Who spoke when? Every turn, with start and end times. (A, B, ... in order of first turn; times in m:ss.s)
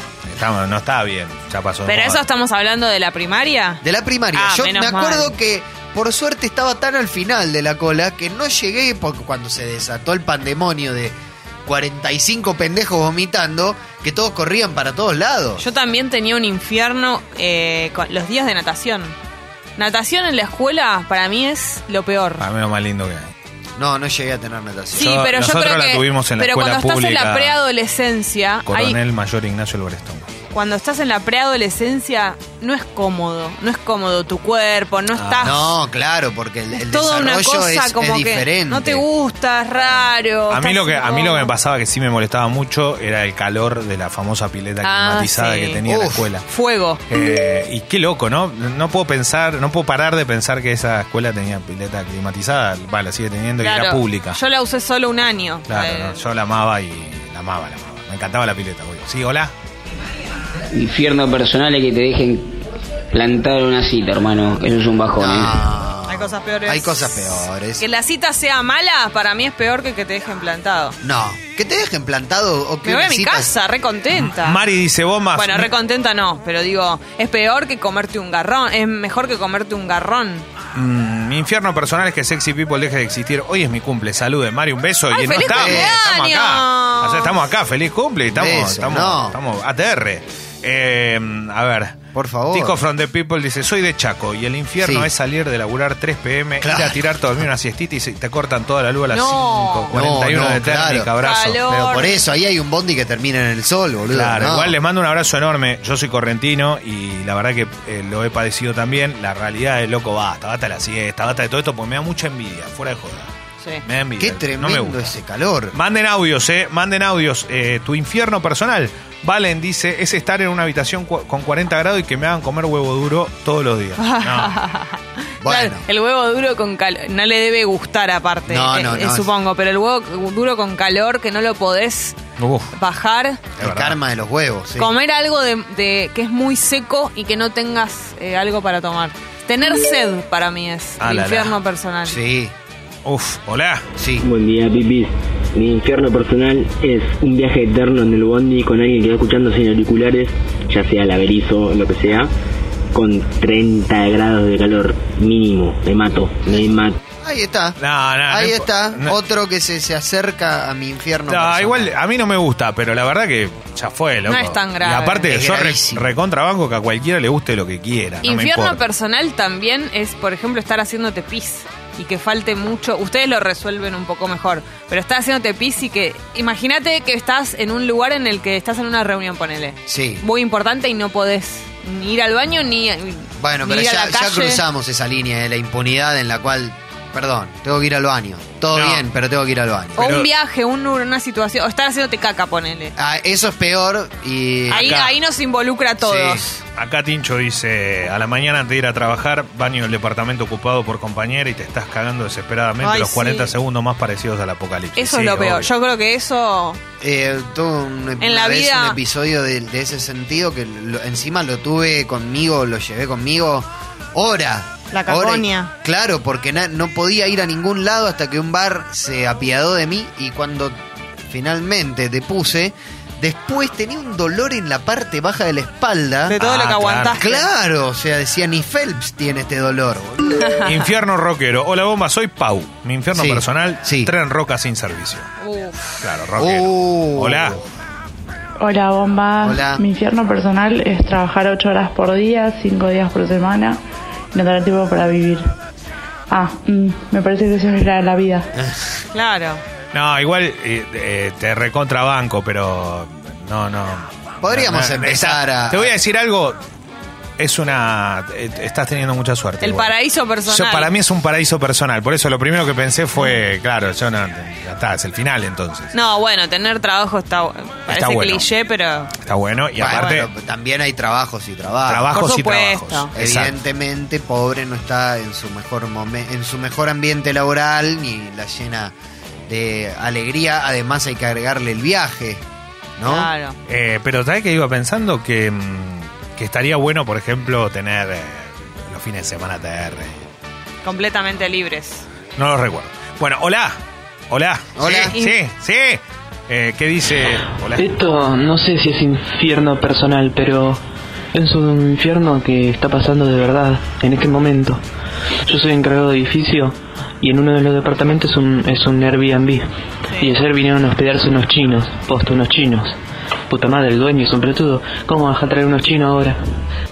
0:00.2-0:02.2 A
0:01.8-0:03.8 B
0:03.8-0:15.6 C
0:04.3-0:05.3 B
0:15.6-0:19.1 B
0:19.8-0:22.4 B
0:22.4-0:23.3 A
0:23.8-0:25.2 C
0:24.9-0:29.0 B
0:25.0-0:27.6 A
0:28.7-0:30.3 A
0:30.5-0:35.7 B
0:35.1-0:35.6 A
0:35.4-0:39.0 C
0:36.7-0:41.5 B
0:40.5-0:46.4 A
0:44.8-0:45.8 B
0:45.9-0:46.3 C
0:46.5-0:47.0 B
0:47.1-0:54.4 A
0:53.6-0:56.2 B
0:55.7-0:59.5 A
1:00.7-1:02.6 D
1:03.1-1:05.6 D
1:05.2-1:07.8 C
1:06.1-1:11.0 B
1:11.0-1:13.5 C
1:12.8-1:14.6 B
1:14.1-1:15.7 A
1:15.3-1:20.4 B
1:20.7-1:32.0 A
1:25.1-1:27.4 B
1:25.4-1:26.0 C
1:28.3-1:29.4 C
1:32.1-1:32.8 C
1:32.5-1:41.6 A
1:34.8-1:35.1 C
1:36.6-1:37.1 C
1:39.1-1:39.9 B
1:39.9-1:44.7 C
1:41.2-1:42.2 B
1:44.1-1:53.3 A
1:53.8-1:55.1 A
1:54.2-1:55.7 C
1:55.7-2:04.5 A
2:04.0-2:12.2 B
2:05.4-2:05.8 C
2:08.5-2:09.3 C
2:12.4-2:12.7 A
2:12.7-2:13.4 B
2:13.6-2:14.9 C
2:13.6-2:14.0 A
2:14.8-2:22.2 B
2:21.0-2:21.5 A
2:22.0-2:22.5 C
2:23.0-2:23.8 A
2:24.0-2:24.2 C
2:24.2-2:32.3 E
2:32.9-2:37.0 E
2:37.2-2:41.9 C
2:37.8-2:39.1 A
2:41.3-2:48.8 A
2:44.3-2:45.3 B
2:45.2-2:46.1 C
2:48.2-3:04.6 B
2:59.9-3:00.2 C
3:03.4-3:10.2 C
3:08.7-3:09.0 A
3:10.0-3:12.9 B
3:10.0-3:10.2 A
3:13.0-3:15.0 C
3:14.7-3:16.6 B
3:14.7-3:15.1 A
3:16.0-3:16.4 C
3:16.7-3:25.7 A
3:22.8-3:23.5 B
3:25.0-3:26.8 B
3:27.0-3:40.8 C
3:28.2-3:29.0 B
3:34.9-3:35.7 B
3:41.3-3:46.4 C
3:46.3-3:47.5 B
3:46.4-3:47.2 A
3:47.2-3:50.5 C
3:50.4-3:50.8 B
3:50.6-3:55.3 A
3:53.1-3:54.1 C
3:55.4-3:56.0 B
3:56.0-3:57.6 A
3:56.4-3:57.6 C
3:58.6-4:03.8 F
3:59.4-3:59.8 C
4:04.3-4:05.4 F
4:06.3-4:08.5 F
4:08.6-4:08.8 C
4:09.1-4:09.6 B
4:09.9-4:16.6 A
4:14.4-4:15.9 C
4:17.4-4:19.9 A
4:19.6-4:20.9 B
4:20.5-4:25.9 A
4:25.9-4:29.1 B
4:27.9-4:28.4 A
4:29.2-4:30.3 A
4:29.8-4:32.1 C
4:31.9-4:33.6 A
4:32.1-4:33.1 B
4:33.1-4:38.9 C
4:39.5-4:42.4 C
4:43.0-4:43.3 C
4:43.0-4:43.6 B
4:43.7-4:50.3 A
4:50.8-4:52.0 B
4:52.4-4:53.8 A
4:54.3-4:57.9 A
4:54.8-4:55.1 C
4:57.8-5:00.8 G
5:01.3-5:04.8 G
5:05.4-5:09.6 G
5:10.2-5:13.0 G
5:13.5-5:16.4 G